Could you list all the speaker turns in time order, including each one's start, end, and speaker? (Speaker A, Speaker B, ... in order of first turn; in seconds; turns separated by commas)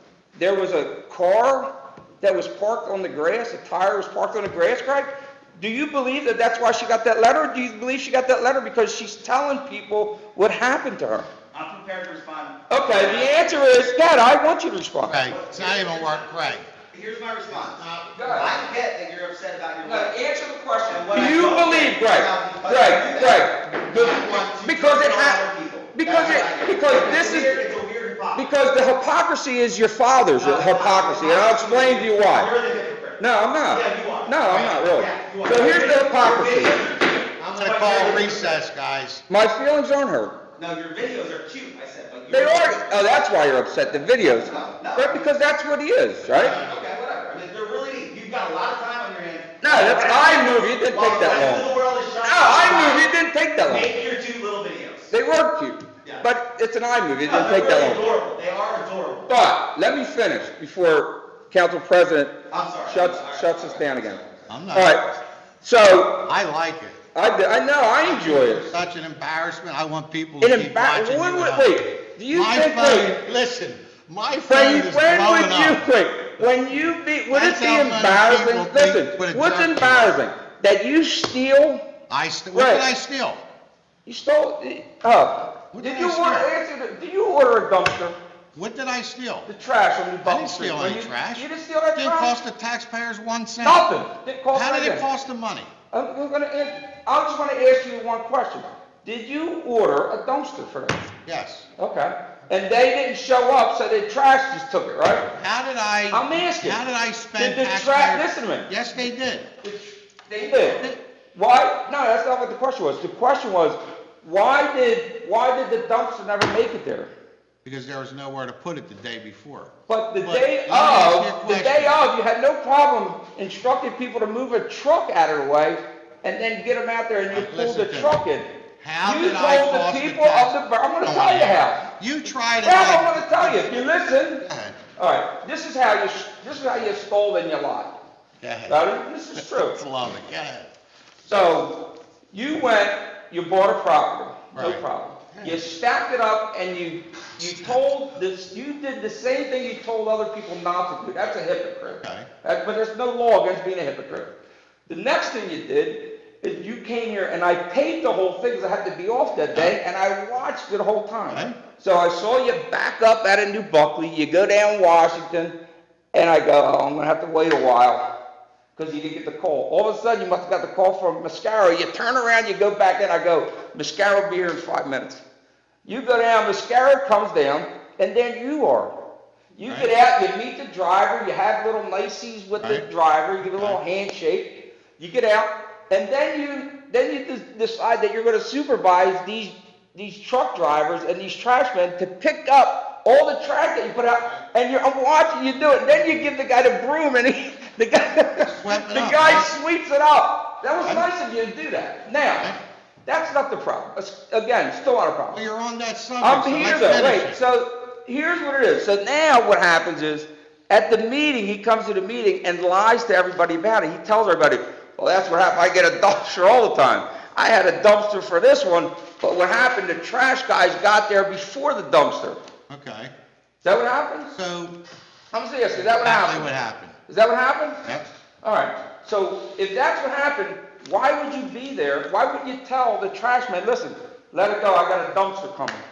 Speaker A: 0.3-11.3, Speaker B: 11.5-13.4, Speaker A: 12.7-15.2, Speaker C: 15.0-16.7, Speaker B: 15.1-16.3, Speaker B: 16.9-20.2, Speaker C: 17.5-18.1, Speaker A: 18.1-18.5, Speaker A: 19.8-27.6, Speaker B: 20.9-28.4, Speaker A: 28.3-32.5, Speaker B: 30.3-38.5, Speaker A: 33.2-36.8, Speaker C: 37.4-39.2, Speaker A: 39.3-40.4, Speaker B: 40.5-43.3, Speaker A: 42.3-46.5, Speaker B: 44.2-45.4, Speaker B: 46.2-53.0, Speaker A: 49.6-51.7, Speaker A: 52.2-53.9, Speaker B: 53.6-55.1, Speaker A: 55.1-58.0, Speaker B: 57.2-59.3, Speaker A: 59.3-64.2, Speaker B: 62.5-64.4, Speaker C: 64.5-65.0, Speaker A: 64.7-66.3, Speaker C: 66.1-67.0, Speaker A: 67.1-68.7, Speaker B: 68.2-68.5, Speaker C: 68.5-75.9, Speaker A: 70.4-73.2, Speaker A: 74.5-81.8, Speaker C: 77.3-80.2, Speaker C: 82.1-83.4, Speaker A: 82.5-82.9, Speaker A: 84.0-88.2, Speaker C: 85.7-86.5, Speaker C: 88.5-89.5, Speaker A: 89.5-92.4, Speaker C: 90.2-93.8, Speaker A: 93.6-95.0, Speaker C: 94.5-95.7, Speaker A: 95.9-101.1, Speaker C: 101.2-101.7, Speaker A: 101.8-105.3, Speaker C: 105.3-109.5, Speaker A: 106.1-108.7, Speaker A: 109.6-117.1, Speaker C: 110.5-111.0, Speaker C: 117.6-122.0, Speaker A: 119.9-131.9, Speaker C: 127.3-128.2, Speaker C: 128.8-133.9, Speaker A: 132.6-134.4, Speaker C: 134.4-134.8, Speaker A: 135.0-138.0, Speaker C: 138.4-140.7, Speaker A: 138.7-139.8, Speaker A: 141.2-154.3, Speaker C: 144.5-145.6, Speaker C: 147.4-147.8, Speaker A: 154.9-165.6, Speaker C: 161.3-161.6, Speaker A: 166.1-168.1, Speaker A: 168.7-175.2, Speaker A: 175.8-179.0, Speaker A: 179.6-202.5, Speaker C: 179.7-179.9, Speaker C: 183.4-183.8, Speaker C: 198.5-199.5, Speaker A: 203.1-205.4, Speaker C: 205.3-207.4, Speaker A: 206.2-222.4, Speaker C: 222.7-223.1, Speaker A: 223.6-224.3, Speaker C: 224.3-224.8, Speaker A: 225.3-226.5, Speaker C: 225.7-226.9, Speaker A: 227.1-227.8, Speaker C: 227.8-228.1, Speaker A: 228.4-235.8